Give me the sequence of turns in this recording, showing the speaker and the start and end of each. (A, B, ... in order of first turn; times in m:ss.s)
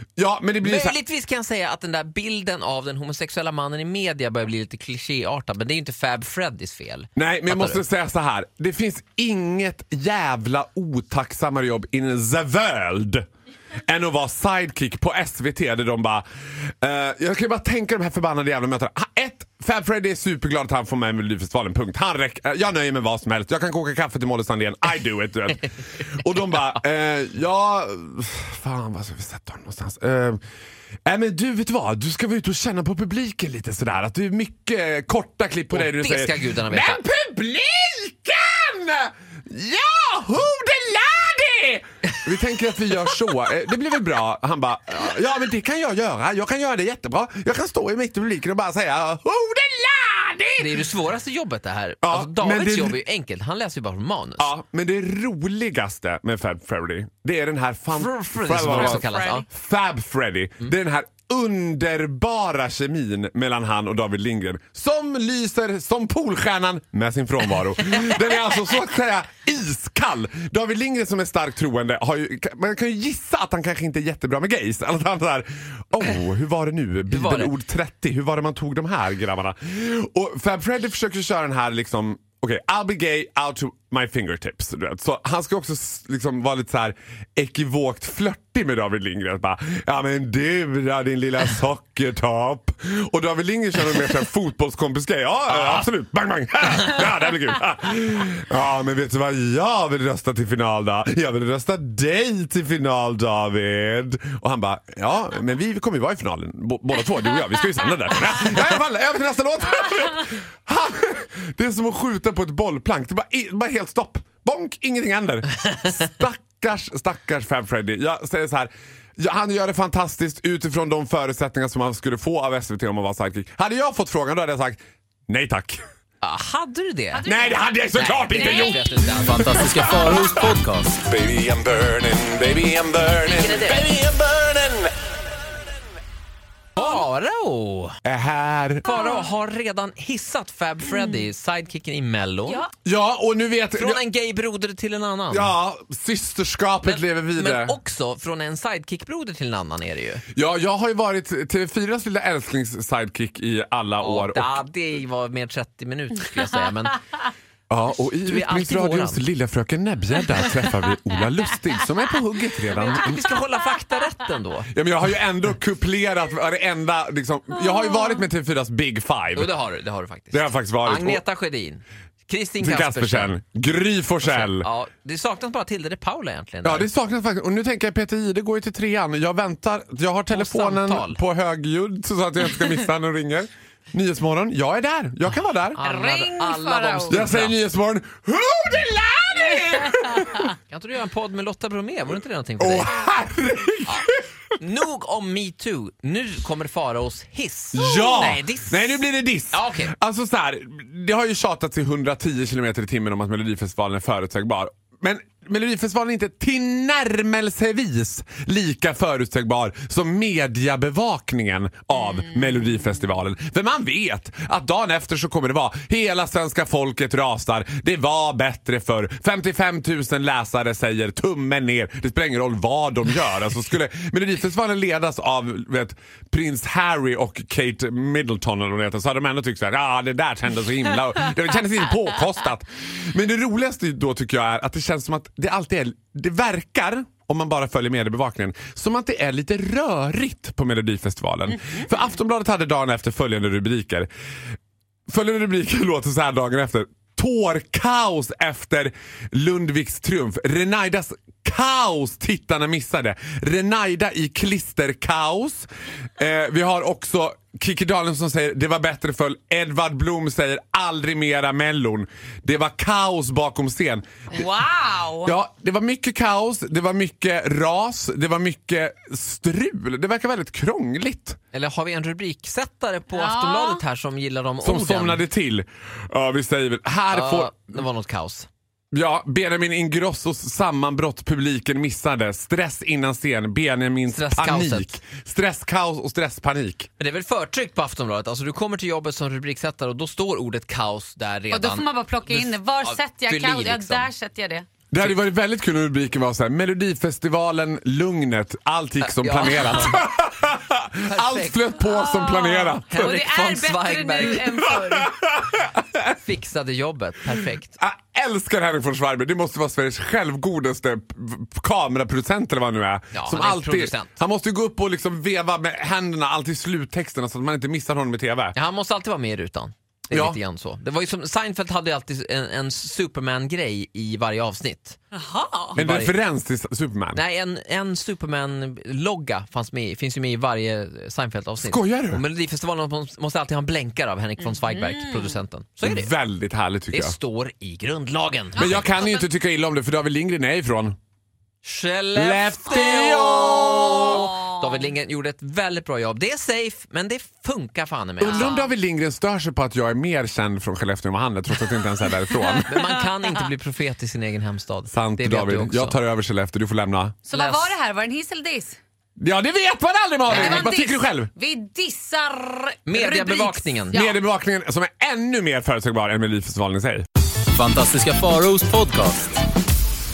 0:00.2-0:01.0 A
0:00.6-0:07.8 B
0:07.2-0:13.3 A
0:13.9-0:30.4 A
0:31.0-0:50.9 A
0:35.7-0:37.0 B
0:50.6-0:54.5 B
0:52.0-0:53.0 A
0:54.4-2:05.8 A
0:58.0-0:59.4 B
0:58.7-0:59.4 C
1:17.1-1:17.5 B
2:06.2-2:07.2 B
2:07.1-2:07.7 C
2:07.2-2:08.9 A
2:08.0-2:09.6 B
2:08.3-2:08.9 C
2:09.2-2:11.0 D
2:09.6-2:10.5 A
2:11.0-2:14.9 A
2:13.2-2:13.9 B
2:16.8-2:18.0 B
2:18.0-2:18.9 A
2:18.8-2:22.6 B
2:18.9-2:19.3 C
2:22.8-2:24.0 A
2:23.8-2:25.5 B
2:25.3-2:27.8 A
2:26.8-2:30.2 B
2:30.3-2:34.6 A
2:34.0-2:37.0 B
2:37.7-2:43.4 A
2:38.2-2:39.2 B
2:42.8-2:44.7 B
2:44.7-2:49.5 A
2:49.4-2:53.4 B
2:50.3-2:51.2 A
2:52.6-2:54.7 A
2:54.2-2:56.9 B
2:56.6-3:05.8 A
3:00.3-3:01.2 B
3:05.8-3:07.6 B
3:05.8-3:07.2 C
3:07.1-3:10.5 A
3:09.9-3:10.3 C
3:10.7-3:13.0 B
3:12.6-3:14.2 A
3:14.6-3:19.9 B
3:17.7-4:04.1 A
3:17.8-3:18.4 C
4:05.1-4:24.5 A
4:24.3-4:25.3 C
4:25.2-4:31.4 A
4:31.5-4:35.2 B
4:33.1-4:33.8 C
4:34.6-4:37.8 A
4:37.1-4:38.5 B
4:38.9-4:46.9 A
4:44.1-4:45.0 B
4:47.0-4:54.1 B
4:51.5-4:54.7 C
4:54.9-5:03.2 A
4:59.0-5:00.1 B
5:01.0-5:01.7 B
5:01.9-5:05.1 C
5:02.9-5:04.5 B
5:04.4-5:06.2 A
5:06.2-5:07.8 B
5:07.8-5:18.6 A
5:13.1-5:14.2 B
5:18.5-5:25.0 B
5:20.1-5:20.4 A
5:25.1-5:25.8 C
5:25.8-5:27.2 A
5:25.8-5:26.2 B
5:27.1-5:36.1 B
5:31.6-5:32.2 A
5:34.4-5:35.4 C
5:35.8-5:37.2 A
5:36.9-5:38.7 B
5:38.6-5:39.3 C
5:38.6-5:41.0 A
5:41.6-5:48.6 B
5:42.1-5:44.3 A
5:43.2-5:44.6 C
5:48.2-5:52.8 A
5:48.2-5:48.6 C
5:52.7-5:56.0 B
5:54.9-5:57.2 A
5:57.3-5:58.8 C
5:57.3-5:57.7 B
5:59.2-6:01.3 A
6:00.3-6:00.6 B
6:00.3-6:04.2 C
6:02.9-6:04.0 B
6:03.9-6:07.0 A
6:07.5-6:09.4 D